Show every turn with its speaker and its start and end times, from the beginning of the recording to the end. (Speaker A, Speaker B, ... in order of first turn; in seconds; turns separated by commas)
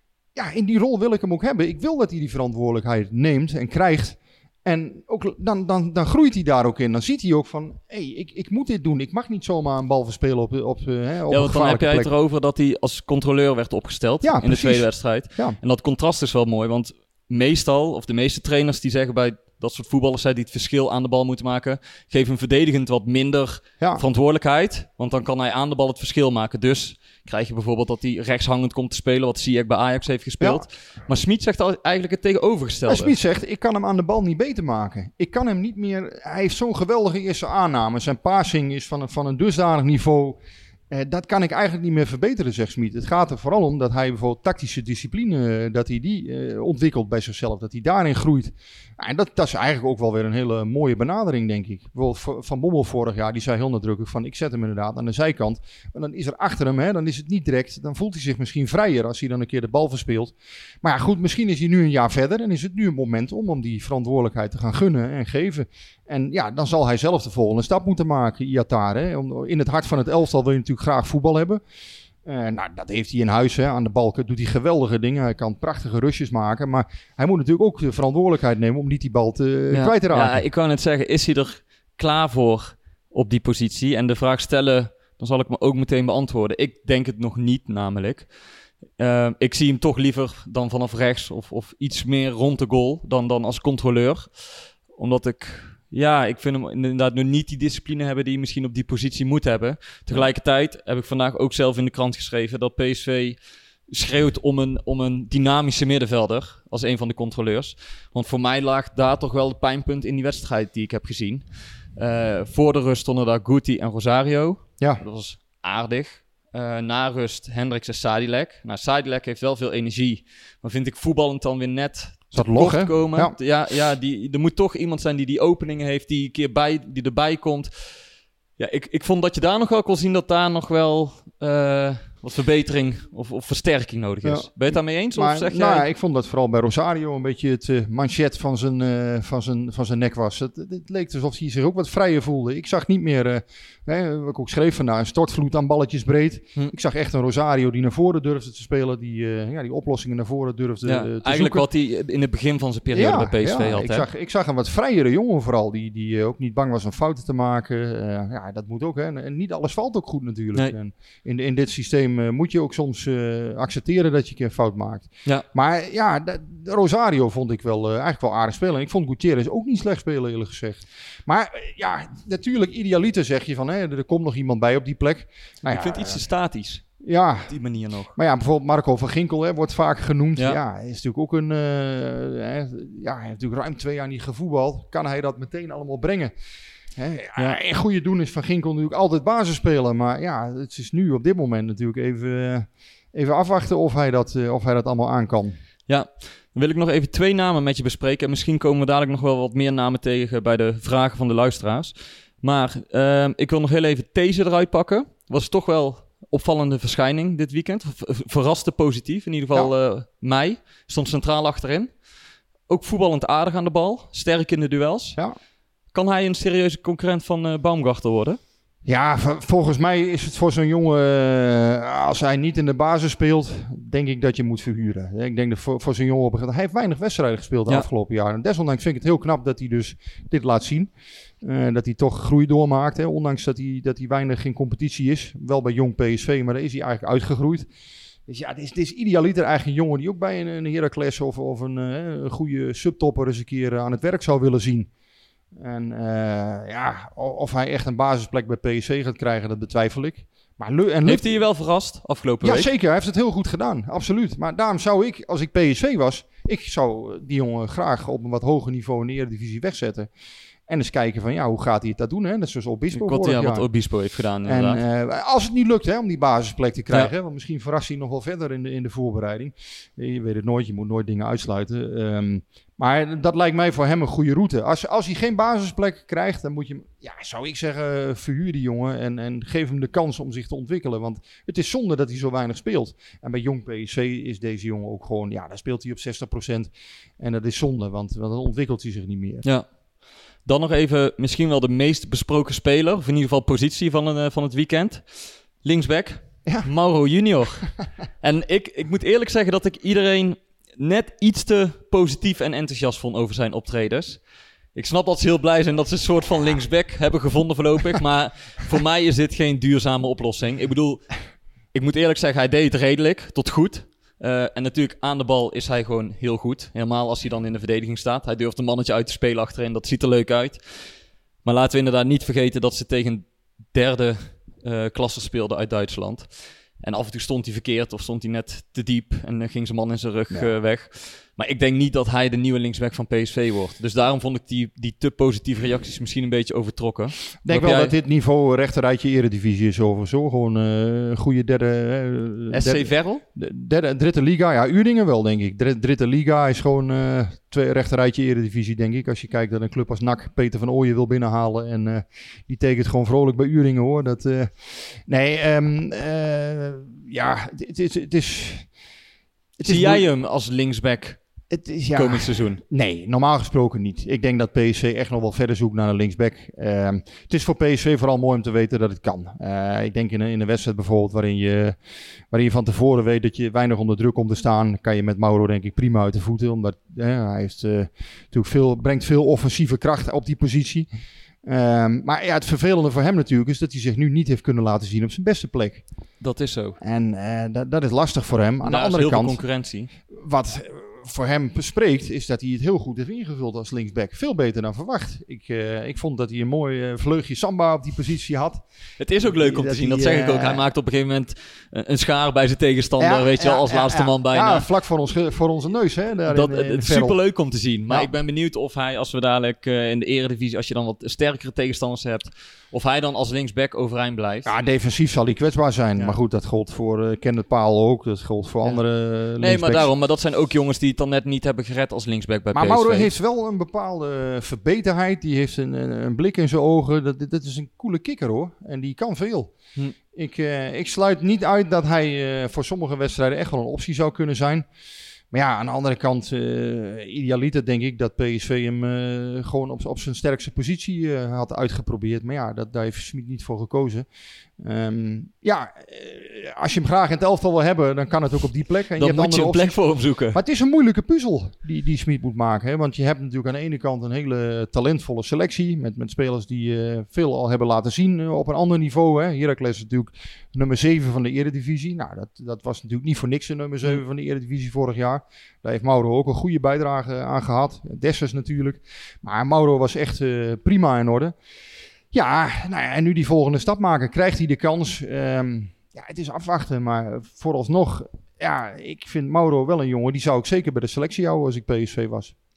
Speaker A: 0.3-12.1, Speaker B: 11.3-33.1, Speaker A: 14.2-15.6, Speaker A: 30.4-30.6, Speaker A: 32.9-40.4, Speaker A: 40.9-71.6, Speaker A: 72.2-80.4, Speaker B: 79.7-88.3, Speaker B: 89.0-128.0, Speaker A: 122.3-123.4, Speaker B: 128.6-135.9, Speaker A: 134.2-151.7, Speaker B: 150.8-154.1, Speaker A: 152.9-176.2, Speaker B: 175.7-176.9, Speaker A: 177.0-177.6, Speaker B: 177.5-178.2, Speaker A: 178.1-186.3, Speaker A: 187.0-195.6, Speaker B: 195.9-212.0, Speaker B: 212.7-215.2, Speaker B: 215.9-218.4, Speaker A: 218.8-237.7, Speaker A: 238.3-244.9, Speaker A: 245.6-251.3, Speaker B: 251.1-252.7, Speaker A: 252.4-260.1, Speaker A: 260.7-263.7, Speaker B: 262.9-264.8, Speaker A: 264.4-289.5, Speaker B: 290.4-304.2, Speaker B: 304.7-311.2, Speaker B: 311.7-320.8, Speaker B: 321.4-338.0, Speaker A: 337.4-358.7, Speaker B: 342.5-343.2, Speaker A: 359.6-360.1, Speaker B: 359.6-361.2, Speaker A: 361.5-371.8, Speaker B: 361.9-362.6, Speaker A: 372.3-380.9, Speaker A: 381.4-385.9, Speaker B: 386.2-386.8, Speaker A: 386.8-389.4, Speaker B: 388.6-389.9, Speaker A: 390.1-398.6, Speaker B: 399.0-404.7, Speaker A: 399.2-400.6, Speaker A: 403.0-407.2, Speaker B: 406.3-414.5, Speaker A: 414.5-419.9, Speaker B: 419.4-423.1, Speaker A: 422.5-429.5, Speaker A: 430.1-434.7, Speaker A: 435.3-444.1, Speaker A: 444.6-471.4, Speaker B: 449.0-450.4, Speaker A: 472.1-482.3